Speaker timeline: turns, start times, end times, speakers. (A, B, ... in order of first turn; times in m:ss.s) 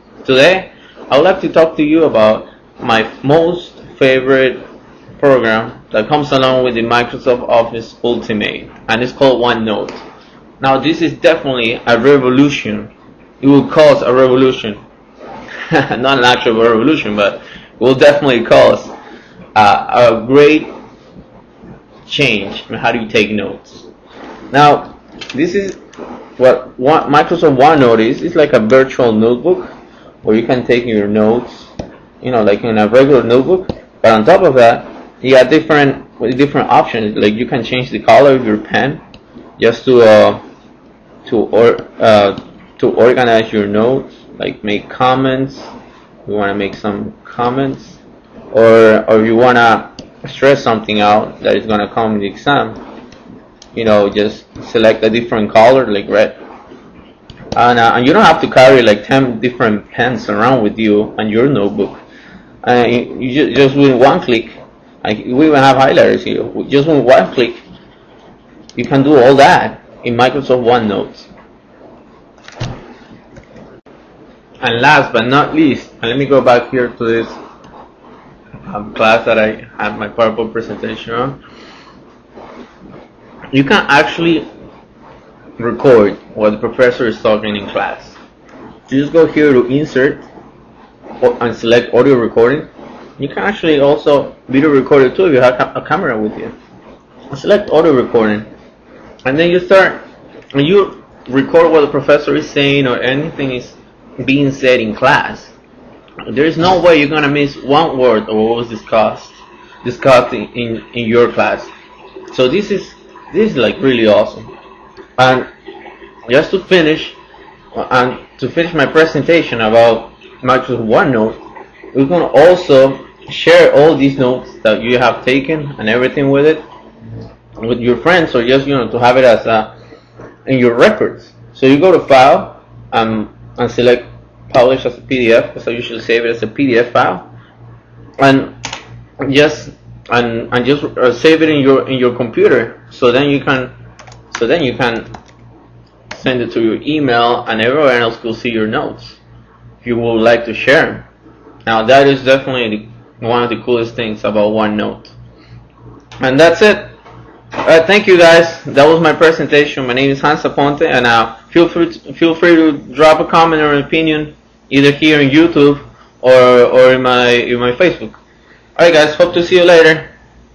0:00.2-0:04.6 A
0:05.2-0:10.0 A
0:10.6-0:14.8 A
0:15.6-0:18.9 A
0:19.5-0:20.7 A
0:22.0-0:23.9 A
0:24.5-0:25.8 A
0:26.4-0:39.0 A
0:39.6-0:40.4 A
0:41.2-0:45.7 A
0:46.2-0:48.0 A
0:48.5-0:52.8 A
0:53.7-0:56.4 A
0:57.5-1:02.0 A
1:02.6-1:07.6 A
1:08.7-1:11.3 A
1:14.6-1:17.4 A
1:18.6-1:21.4 A
1:23.5-1:24.5 A
1:25.6-1:28.2 A
1:28.9-1:30.2 A
1:31.2-1:36.5 A
1:37.3-1:38.5 A
1:39.2-1:40.0 A
1:40.5-1:45.5 A
1:46.2-1:51.7 A
1:52.3-1:54.5 A
1:55.2-1:55.5 A
1:56.3-1:57.2 A
1:57.7-2:06.6 A
2:07.6-2:09.7 A
2:10.4-2:17.3 A
2:18.2-2:18.6 A
2:19.2-2:23.7 A
2:24.3-2:25.1 A
2:26.1-2:29.2 A
2:29.8-2:31.1 A
2:31.6-2:35.1 A
2:36.2-2:36.9 A
2:37.6-2:48.2 A
2:48.8-2:50.1 A